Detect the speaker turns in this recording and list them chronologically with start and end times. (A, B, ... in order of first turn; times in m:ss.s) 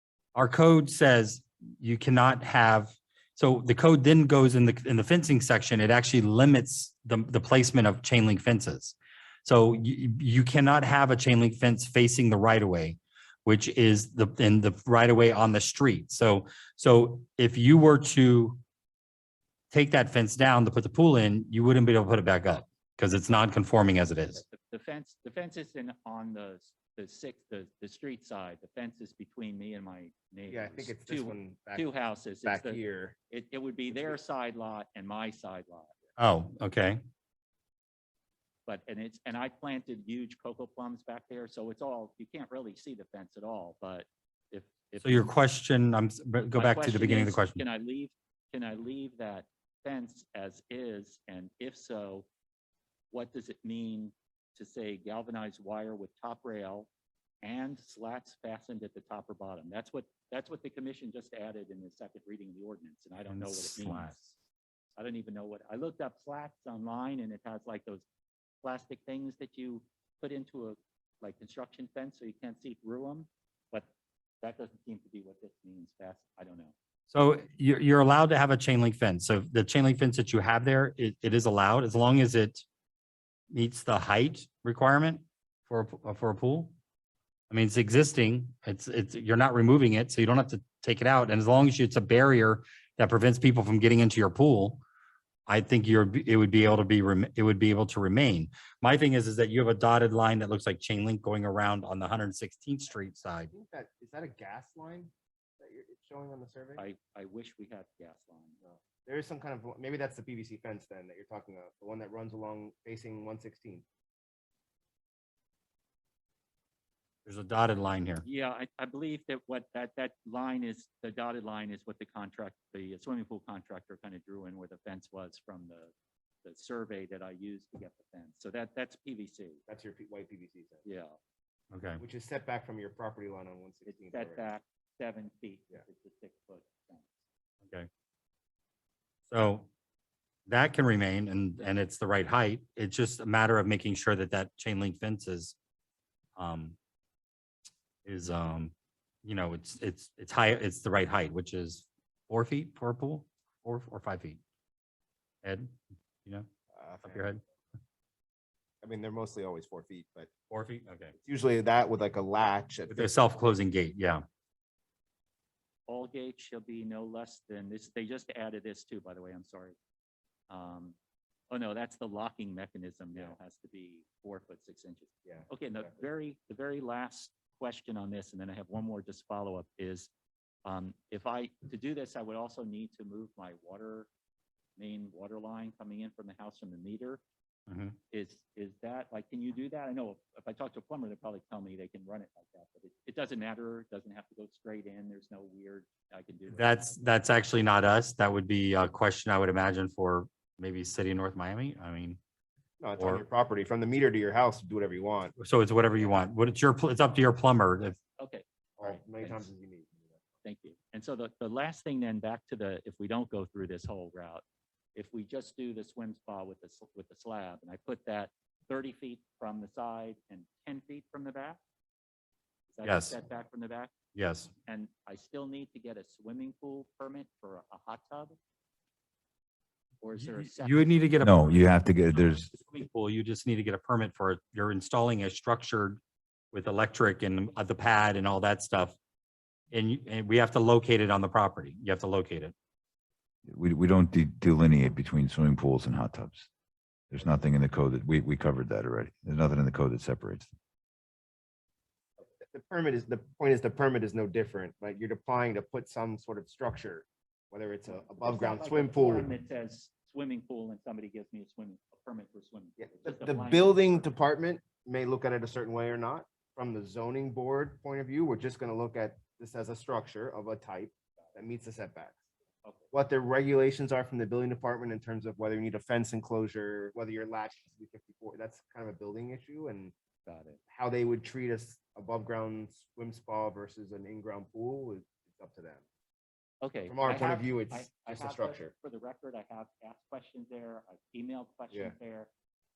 0:00.3-0:18.6 A
0:19.7-0:24.4 A
0:24.4-0:35.9 B
0:30.5-0:31.9 C
0:32.4-0:33.2 C
0:36.2-0:37.0 A
0:38.7-0:45.3 B
0:45.0-0:47.6 A
0:46.5-0:52.2 B
0:53.1-0:56.9 B
0:57.4-1:04.2 B
1:03.3-1:04.3 A
1:05.0-1:08.0 B
1:08.6-1:13.9 B
1:14.4-1:16.7 B
1:17.1-1:22.6 A
1:23.5-1:26.7 A
1:27.5-1:34.8 A
1:35.5-1:43.5 A
1:43.5-1:46.8 C
1:46.8-1:48.6 B
1:48.6-1:53.8 C
1:57.2-1:58.2 A
1:58.2-2:05.9 B
2:06.4-2:09.6 B
2:09.7-2:10.8 C
2:10.8-2:11.2 B
2:11.7-2:12.0 A
2:12.0-2:14.5 C
2:13.9-2:17.2 B
2:19.3-2:19.7 A
2:20.5-2:25.6 A
2:26.4-2:26.8 A
2:28.0-2:28.7 A
2:29.2-2:34.4 A
2:35.4-2:36.4 A
2:36.7-2:37.4 C
2:37.0-2:37.4 A
2:38.8-2:40.3 C
2:40.5-2:41.1 A
2:41.2-2:43.2 C
2:42.9-2:44.2 A
2:45.9-2:49.8 B
2:50.5-2:51.0 B
2:51.5-3:00.1 B
2:55.2-2:56.0 C
3:00.6-3:04.1 B
3:04.8-3:07.2 B
3:07.7-3:08.0 A
3:08.1-3:17.0 B
3:16.5-3:22.2 A
3:22.8-3:25.3 C
3:23.0-3:23.2 A
3:25.4-3:28.0 A
3:28.2-3:29.5 B
3:28.8-3:30.2 C
3:30.4-3:34.4 B
3:34.9-3:41.6 B
3:42.7-3:43.9 B
3:42.8-3:43.2 A
3:44.1-3:44.5 A
3:44.6-3:48.4 B
3:50.0-3:51.6 B
3:50.2-3:56.0 A
3:51.2-3:52.5 D
3:56.5-3:59.0 A
3:59.7-4:02.5 A
4:03.5-4:06.5 D
4:07.1-4:10.5 D
4:12.4-4:19.3 C
4:18.2-4:24.1 B
4:22.8-4:32.2 C
4:32.9-4:39.9 C
4:40.2-4:40.6 B
4:40.7-4:45.8 C
4:46.6-4:52.3 B
4:46.8-4:48.7 C
4:51.7-4:52.0 C